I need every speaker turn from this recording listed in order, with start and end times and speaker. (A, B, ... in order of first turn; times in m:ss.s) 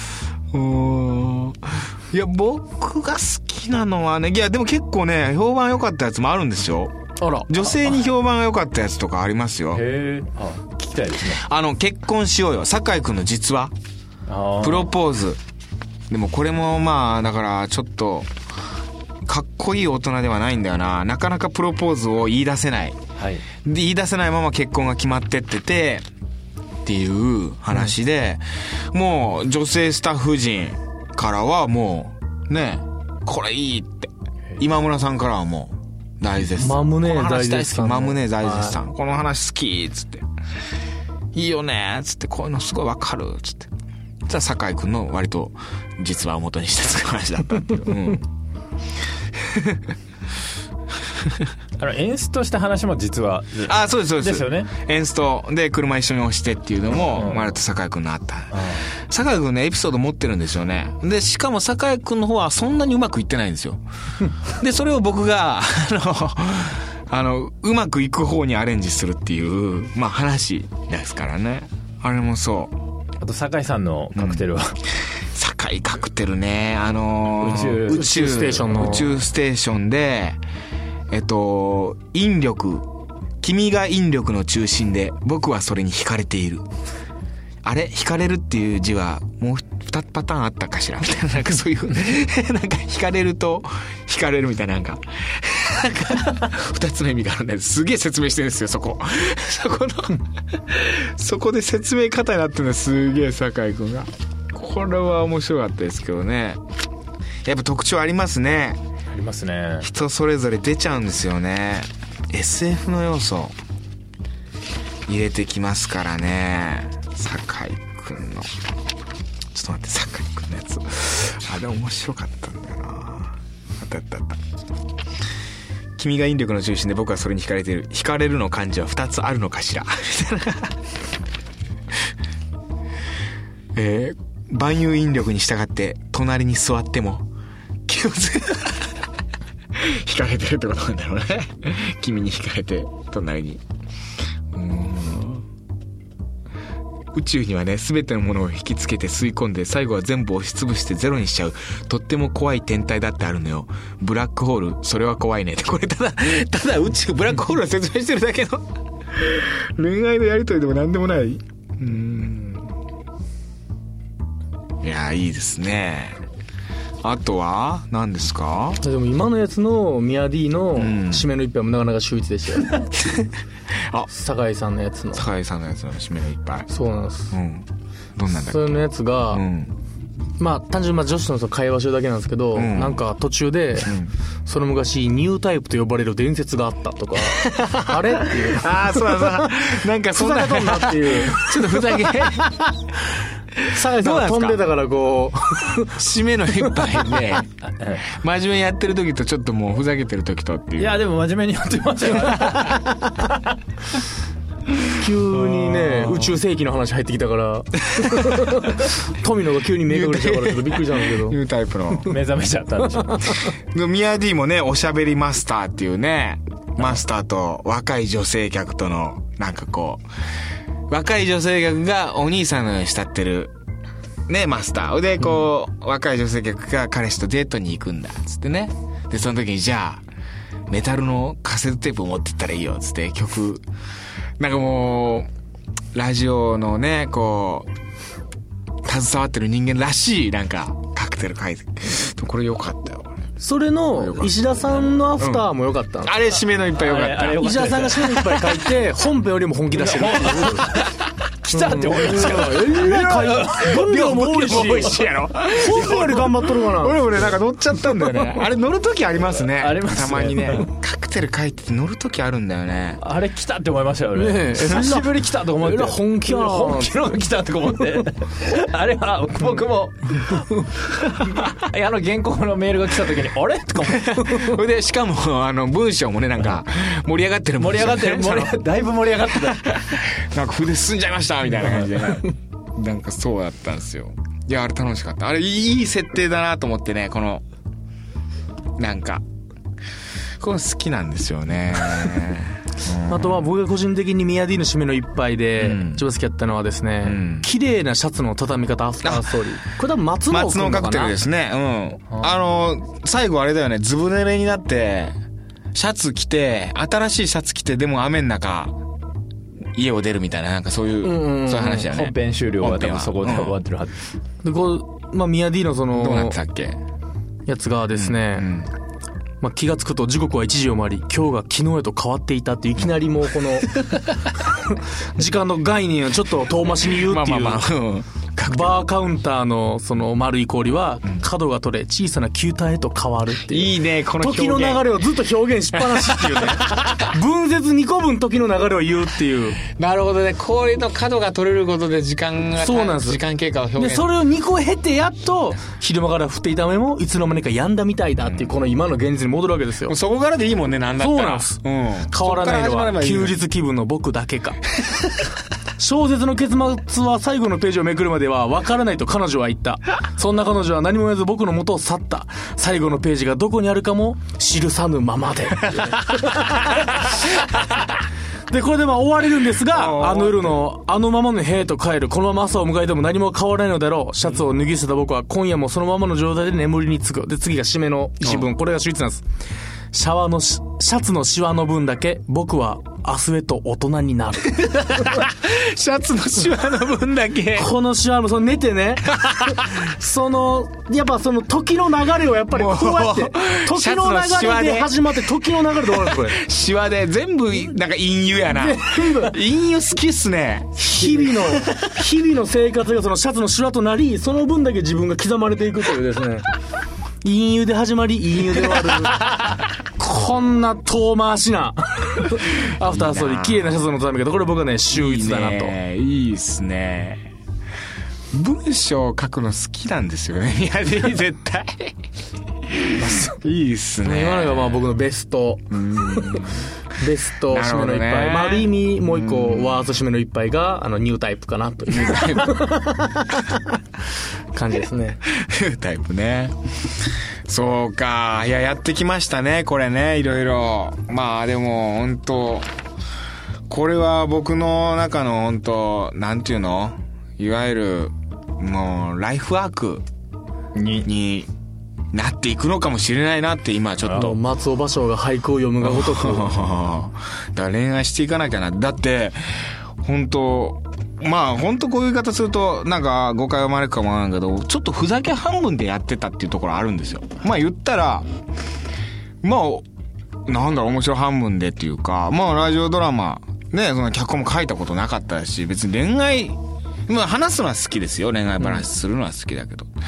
0:00.5-0:06.9 A
0:07.2-0:07.6 B
0:07.5-0:09.8 A
0:09.7-0:11.4 C
0:11.4-0:13.7 A
0:14.3-0:14.9 C
0:14.6-0:15.4 A
0:16.1-0:18.3 A
0:19.3-0:23.0 A
0:23.2-0:23.4 C
0:23.6-0:26.0 A
0:26.8-0:40.2 A
0:36.6-0:38.8 B
0:41.3-0:43.7 A
0:44.3-0:48.2 A
0:49.4-0:49.8 A
0:51.8-0:54.7 C
0:53.7-1:03.8 A
0:57.1-0:57.6 C
0:58.5-0:58.9 C
1:04.5-1:12.7 A
1:13.2-1:14.8 C
1:14.2-1:14.5 A
1:15.3-1:20.4 A
1:17.4-1:18.3 C
1:17.8-1:19.1 B
1:21.1-1:22.8 A
1:23.4-1:26.6 A
1:27.6-1:46.6 A
1:47.4-1:48.8 A
1:49.1-1:49.9 C
1:49.8-1:53.5 A
1:55.1-1:58.5 A
1:59.5-2:04.4 A
2:06.0-2:10.8 A
2:13.8-2:17.3 A
2:17.9-2:18.9 A
2:19.8-2:23.6 A
2:24.5-2:25.4 A
2:27.1-2:42.7 A
2:44.8-2:46.2 A
2:47.0-2:48.8 A
2:48.8-2:52.8 B
2:50.8-2:51.3 A
2:52.8-2:53.3 A
2:54.1-2:55.3 B
2:55.2-2:56.7 A
2:56.7-2:57.3 B
2:57.3-2:58.8 A
2:58.4-2:59.4 B
2:59.3-2:59.7 A
3:00.4-3:03.9 B
3:02.6-3:03.0 A
3:03.9-3:04.1 A
3:04.5-3:09.5 B
3:07.4-3:12.6 A
3:10.2-3:11.8 B
3:13.6-3:14.6 A
3:13.7-3:15.9 B
3:15.8-3:17.5 A
3:17.7-3:18.0 C
3:18.0-3:21.0 A
3:20.8-3:23.4 C
3:25.0-3:31.4 B
3:25.3-3:26.4 A
3:28.0-3:28.4 A
3:29.9-3:32.2 A
3:32.1-3:33.3 C
3:33.0-3:33.5 B
3:33.7-3:40.0 A
3:40.9-3:43.5 A
3:44.3-3:50.0 A
3:50.7-3:53.6 A
3:54.4-3:55.3 A
3:55.9-3:57.7 A
3:58.8-4:03.2 A
4:03.4-4:06.1 B
4:04.0-4:04.4 A
4:05.2-4:05.5 A
4:06.0-4:07.9 A
4:06.7-4:08.4 C
4:07.4-4:10.7 B
4:10.0-4:10.9 C
4:10.0-4:10.5 A
4:11.4-4:15.0 C
4:11.5-4:17.0 B
4:12.1-4:23.0 A
4:19.6-4:20.7 C
4:23.0-4:34.5 C
4:24.2-4:26.9 B
4:33.9-4:38.6 A
4:37.6-4:39.6 C
4:39.5-4:47.4 A
4:48.8-4:49.2 A
4:50.4-4:53.4 A
4:53.1-5:01.2 B
4:55.6-4:56.0 A
4:57.0-4:57.5 A
5:00.3-5:05.2 A
5:05.7-5:08.7 A
5:09.8-5:13.6 A
5:11.0-5:11.9 B
5:11.8-5:14.0 C
5:14.4-5:16.4 B
5:16.0-5:16.8 A
5:17.5-5:18.5 B
5:18.0-5:18.7 A
5:19.4-5:23.8 B
5:24.5-5:27.6 B
5:26.9-5:28.9 A
5:28.5-5:39.6 B
5:33.5-5:34.9 A
5:35.9-5:37.0 A
5:39.6-5:44.1 A
5:42.6-5:43.2 B
5:43.8-5:50.0 B
5:49.9-5:53.4 A
5:51.0-5:51.6 B
5:52.1-5:54.6 B
5:55.8-6:07.1 B
6:08.5-6:19.2 B
6:09.7-6:10.6 A
6:19.9-6:25.2 B
6:24.9-6:27.7 A
6:27.6-6:36.4 B
6:29.2-6:29.6 A
6:32.5-6:35.2 A
6:35.9-6:41.9 A
6:38.5-6:39.4 B
6:40.8-6:46.5 B
6:47.2-6:49.3 B
6:50.0-6:55.8 B
6:52.8-6:53.7 A
6:54.9-6:57.3 A
6:58.3-7:02.0 A
7:02.8-7:04.8 A
7:03.0-7:03.4 B
7:04.0-7:06.5 B
7:05.7-7:06.7 A
7:07.0-7:13.6 B
7:07.5-7:09.9 A
7:11.9-7:12.6 A
7:14.5-7:15.2 B
7:15.3-7:16.6 A
7:17.5-7:22.7 A
7:23.7-7:30.0 A
7:30.8-7:31.1 C
7:31.0-7:31.5 A
7:32.1-7:34.4 A
7:34.1-7:36.6 B
7:35.8-7:48.3 A
7:49.4-7:49.8 A
7:50.5-7:59.9 A